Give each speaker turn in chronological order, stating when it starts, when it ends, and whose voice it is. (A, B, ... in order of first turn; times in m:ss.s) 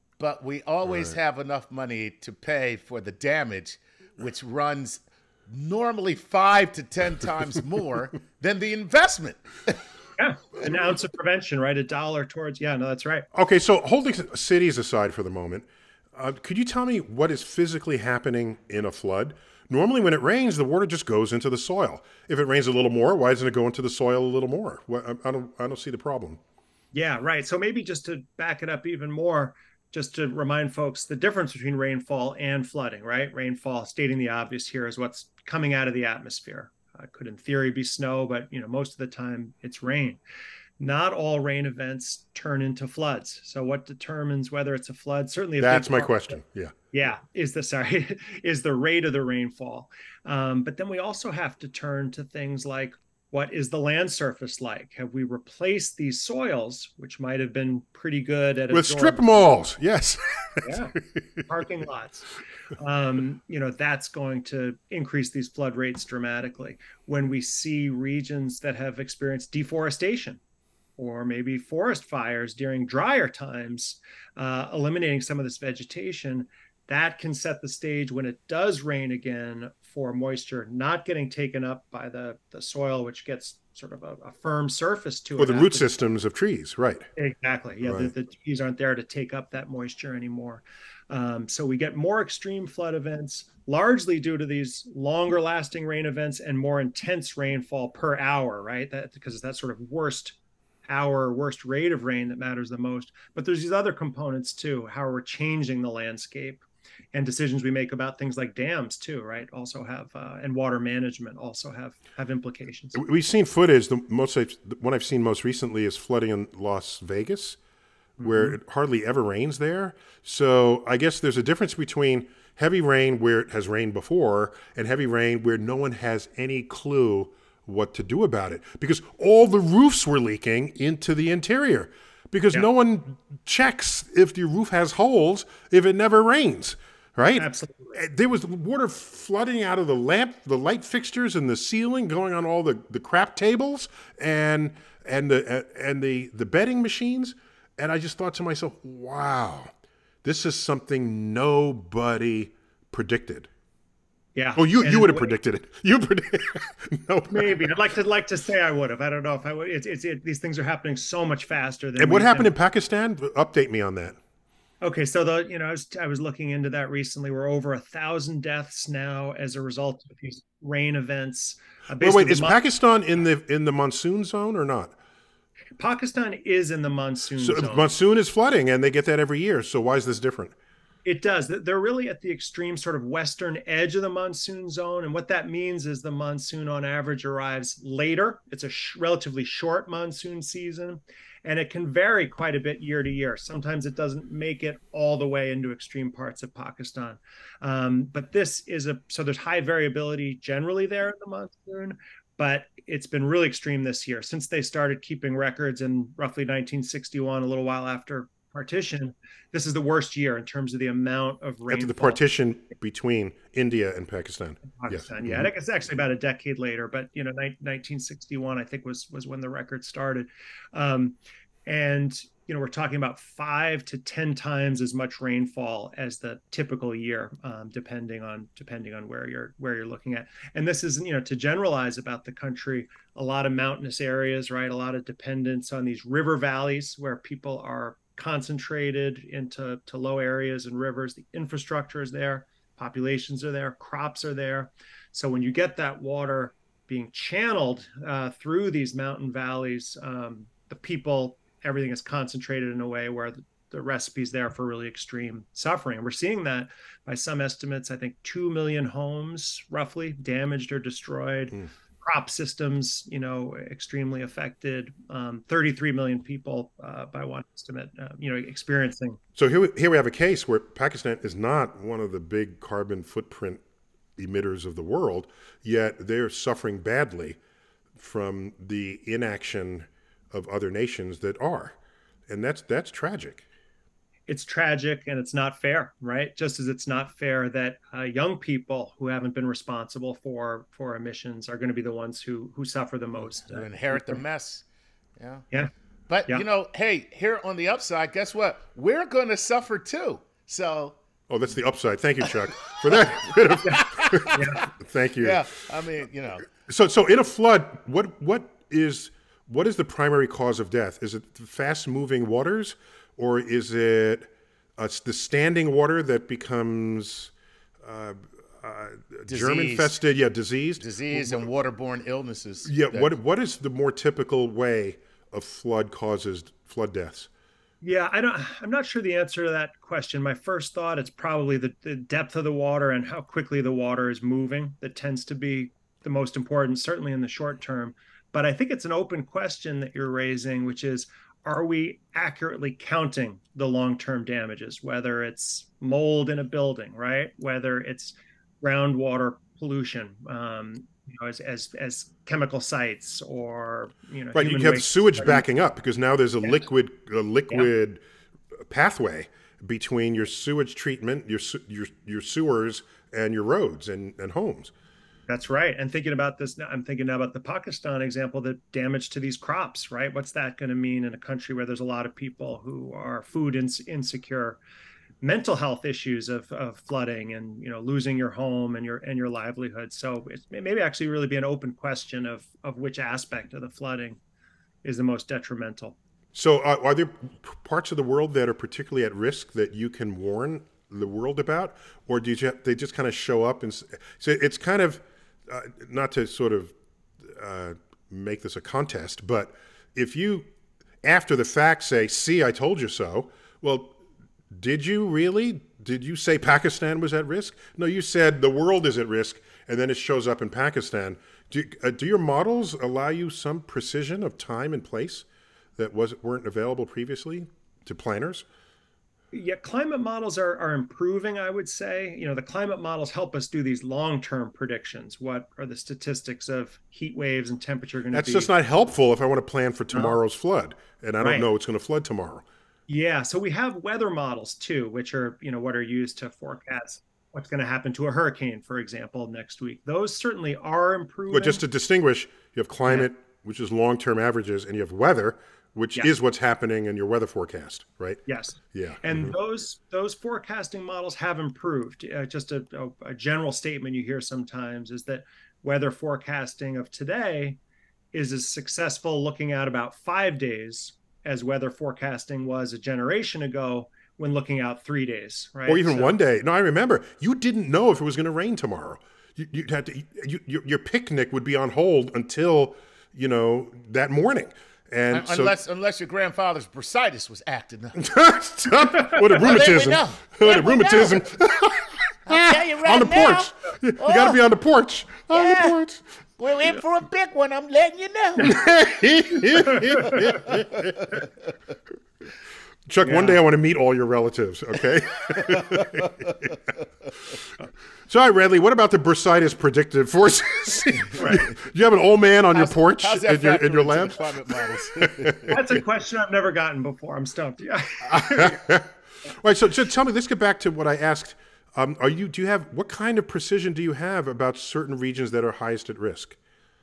0:00.2-0:09.8 A
0:10.2-0:13.2 B
0:13.3-0:26.4 C
0:26.9-0:40.2 B
0:40.8-0:46.4 B
0:45.6-0:46.7 C
0:46.9-0:59.5 B
0:58.7-1:01.4 C
1:00.6-1:00.9 B
1:01.4-1:10.4 B
1:11.0-1:25.9 B
1:25.4-1:27.1 C
1:27.2-1:53.0 B
1:27.8-1:28.1 C
1:52.9-1:57.6 C
1:58.2-1:58.6 B
1:58.2-2:29.7 C
2:17.4-2:18.0 B
2:30.2-2:33.5 C
2:34.3-2:35.4 B
2:34.6-2:37.7 C
2:37.3-2:42.5 B
2:42.0-2:44.2 C
2:44.8-2:52.6 B
2:52.0-2:54.9 C
2:55.8-2:57.9 B
2:57.4-3:00.5 C
3:01.0-3:32.2 B
3:31.7-3:35.5 C
3:34.7-4:29.2 B
4:29.4-4:33.6 C
4:34.2-4:37.4 C
4:38.0-4:41.8 C
4:42.3-4:43.5 C
4:44.3-4:54.2 B
4:53.4-4:54.6 A
4:55.2-4:55.4 A
4:56.1-5:01.0 A
5:01.3-5:05.5 C
5:03.6-5:04.5 A
5:04.3-5:04.6 B
5:05.2-5:06.5 A
5:06.5-5:21.5 C
5:19.3-5:19.9 A
5:20.8-5:23.1 A
5:22.6-5:27.3 C
5:27.8-5:55.4 B
5:54.3-5:58.0 C
5:58.7-6:04.7 C
6:05.3-6:14.6 B
6:15.2-6:24.2 B
6:24.8-6:26.0 B
6:26.3-6:40.5 C
6:41.0-6:44.0 C
6:44.5-6:55.2 C
6:55.8-6:58.4 C
6:59.3-7:08.5 B
7:08.1-7:12.4 C
7:09.9-7:10.2 B
7:11.2-7:11.5 B
7:12.9-7:21.6 B
7:21.3-7:28.2 C
7:22.8-7:23.1 B
7:28.2-7:37.6 B
7:28.7-7:29.3 C
7:38.1-7:46.2 B
7:45.6-7:55.6 C
7:55.1-7:58.0 A
7:58.0-8:06.0 C
7:59.3-8:01.2 A
8:02.3-8:04.4 A
8:05.3-8:05.8 A
8:06.4-8:08.5 A
8:08.4-8:11.2 C
8:09.7-8:10.2 B
8:10.5-8:11.2 A
8:12.9-8:16.2 C
8:13.0-8:13.4 B
8:15.6-8:16.0 A
8:18.1-8:25.6 C
8:21.2-8:21.5 B
8:22.5-8:25.7 A
8:25.5-8:28.6 B
8:28.1-8:36.4 C